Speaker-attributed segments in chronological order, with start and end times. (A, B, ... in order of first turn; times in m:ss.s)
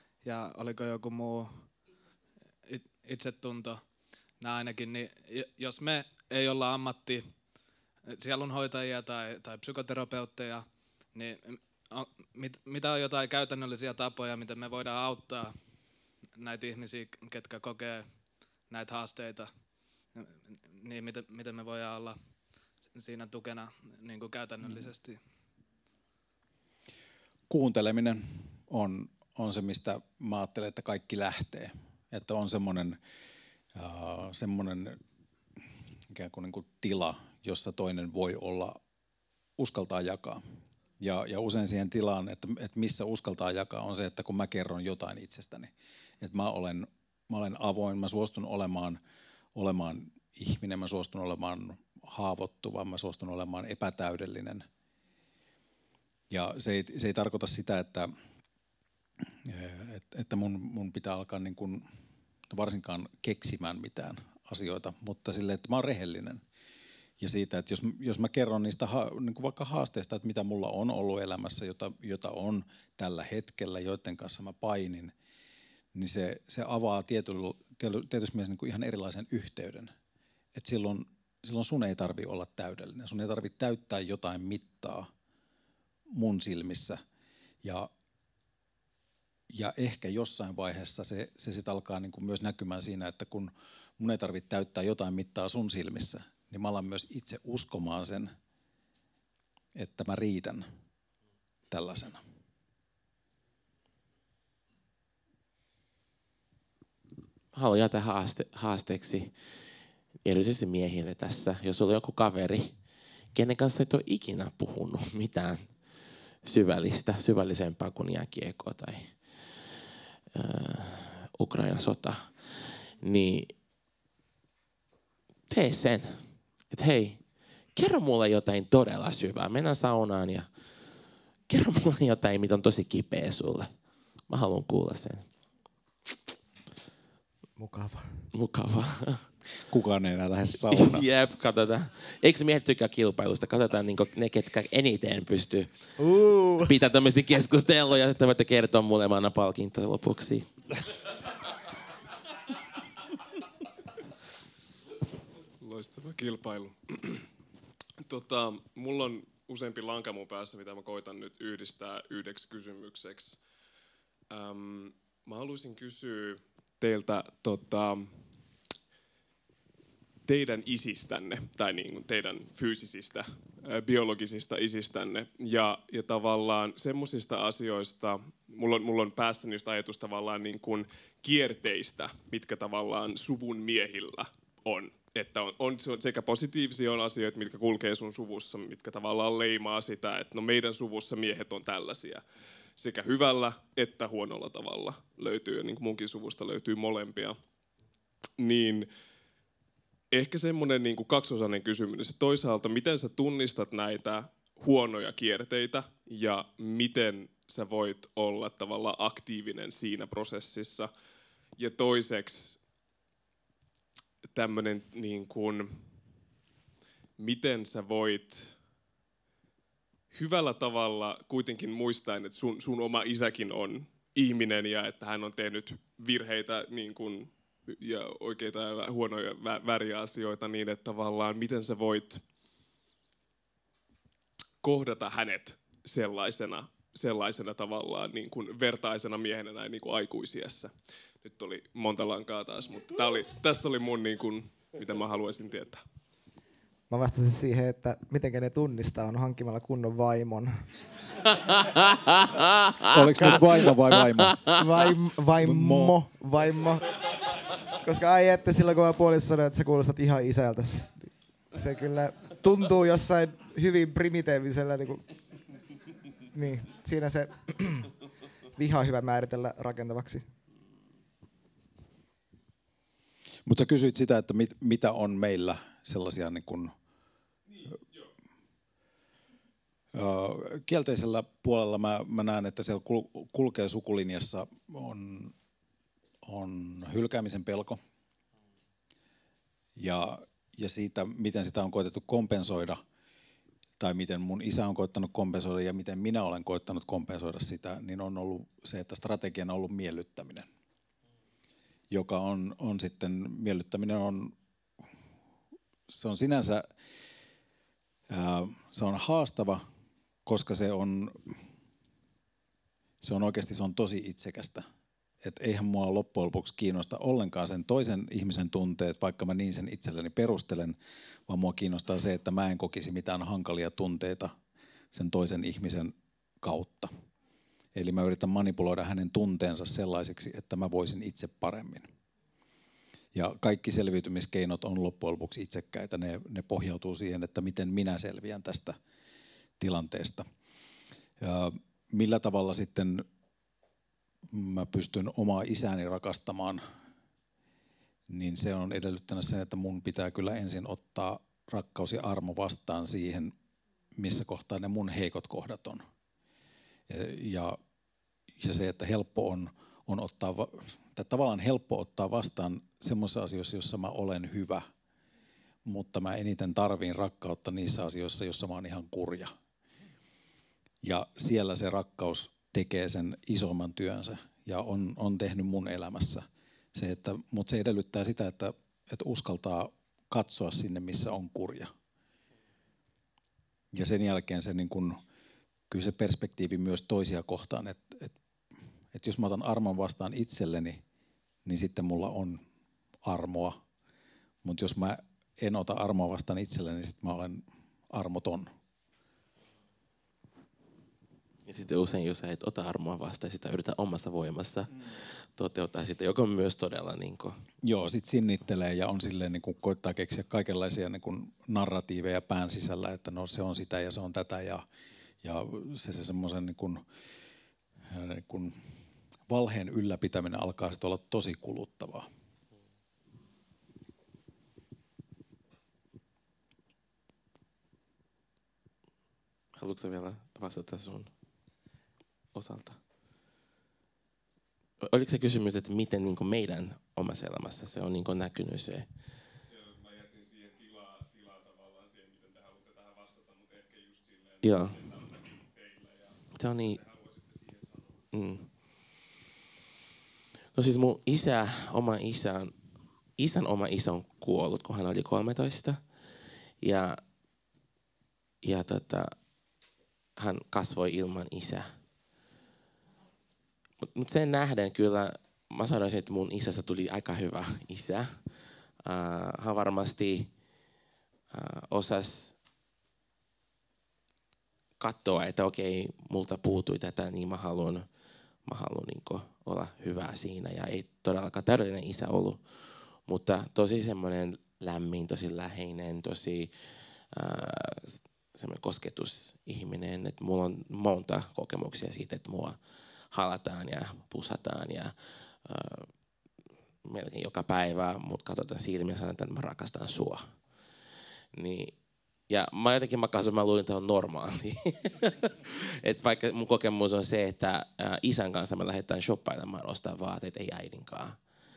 0:00.2-0:01.7 A
0:02.6-0:03.8 A
0:04.4-0:07.2 A
0:08.1-0:15.6 A
0:16.4-0:19.5 A
0:20.1-0:22.2 A
0:22.9-0:25.2 A
0:27.5-0:33.0 B
0:33.7-0:35.0 B
0:36.1-0:38.8 B
0:39.6-0:40.4 B
0:41.0-0:49.0 B
0:49.5-0:54.6 B
0:56.3-0:58.1 B
0:59.4-1:01.8 B
1:02.5-1:06.4 B
1:07.2-1:15.1 B
1:15.9-1:19.9 B
1:20.5-1:25.1 B
1:26.1-1:27.0 B
1:27.6-1:27.9 B
1:29.5-1:38.3 B
1:39.7-1:40.6 B
1:41.7-1:42.2 B
1:47.5-1:49.3 C
1:50.2-1:52.7 C
1:53.3-1:55.7 C
1:56.4-1:59.6 C
2:00.3-2:03.5 C
2:05.5-2:07.2 C
2:07.7-2:10.5 C
2:11.5-2:13.7 C
2:14.3-2:15.2 C
2:17.6-2:18.2 D
2:18.3-2:19.3 C
2:19.6-2:21.0 B
2:20.7-2:25.7 C
2:26.0-2:26.7 D
2:26.6-2:30.5 C
2:35.6-2:37.3 E
2:38.0-2:43.4 E
2:44.3-2:48.2 E
2:50.2-3:12.2 E
3:12.8-3:17.4 E
3:18.4-3:18.9 E
3:20.1-3:30.9 E
3:31.6-3:32.6 E
3:34.2-3:35.9 E
3:37.2-3:38.5 E
3:40.1-3:52.2 E
3:54.6-4:05.8 E
4:06.9-4:10.6 D
4:11.4-4:12.9 C
4:12.9-4:14.4 B
4:14.5-4:17.0 D
4:15.4-4:16.0 B
4:17.7-4:25.0 D
4:26.3-4:27.9 D
4:28.6-4:30.2 D
4:33.4-4:36.7 B
4:39.9-4:45.3 B
4:46.2-4:47.8 B
4:49.8-4:52.8 B
4:53.8-5:00.5 B
5:01.9-5:04.3 B
5:05.9-5:06.7 B
5:08.1-5:09.6 B
5:10.2-5:11.4 B
5:13.0-5:14.6 B
5:15.2-5:24.4 B
5:24.9-5:26.9 B
5:27.7-5:31.9 B
5:33.1-5:38.8 B
5:39.6-5:40.2 B
5:41.2-5:43.0 B
5:44.3-5:46.6 B
5:48.1-5:53.3 B
5:54.0-5:55.8 B
5:56.9-5:57.6 B
5:58.4-6:04.7 B
6:05.6-6:09.3 B
6:10.8-6:21.7 B
6:23.7-6:25.0 B
6:25.7-6:28.1 B
6:28.9-6:30.8 B
6:31.4-6:32.4 B
6:33.0-6:33.6 B
6:34.4-6:38.5 B
6:41.4-6:47.4 C
6:47.6-6:54.6 B
6:55.2-6:56.8 B
6:57.9-6:58.6 B
6:59.3-7:02.1 B
7:09.6-7:11.1 C
7:12.3-7:12.8 C
7:14.8-7:18.9 C
7:19.4-7:28.0 E
7:24.4-7:24.8 C
7:26.3-7:26.8 C
7:28.1-7:28.5 C
7:30.5-7:32.5 C
7:33.2-7:35.8 C
7:36.6-7:37.0 C
7:38.4-7:39.1 C
7:40.2-7:41.7 C
7:43.8-7:48.2 C
7:48.8-7:50.3 C
7:51.3-7:52.3 C
7:54.8-7:57.8 C
7:58.4-8:02.4 C
8:03.0-8:06.5 C
8:07.1-8:12.6 C
8:13.1-8:15.9 C
8:16.8-8:20.3 C
8:21.3-8:21.8 C
8:22.3-8:31.2 C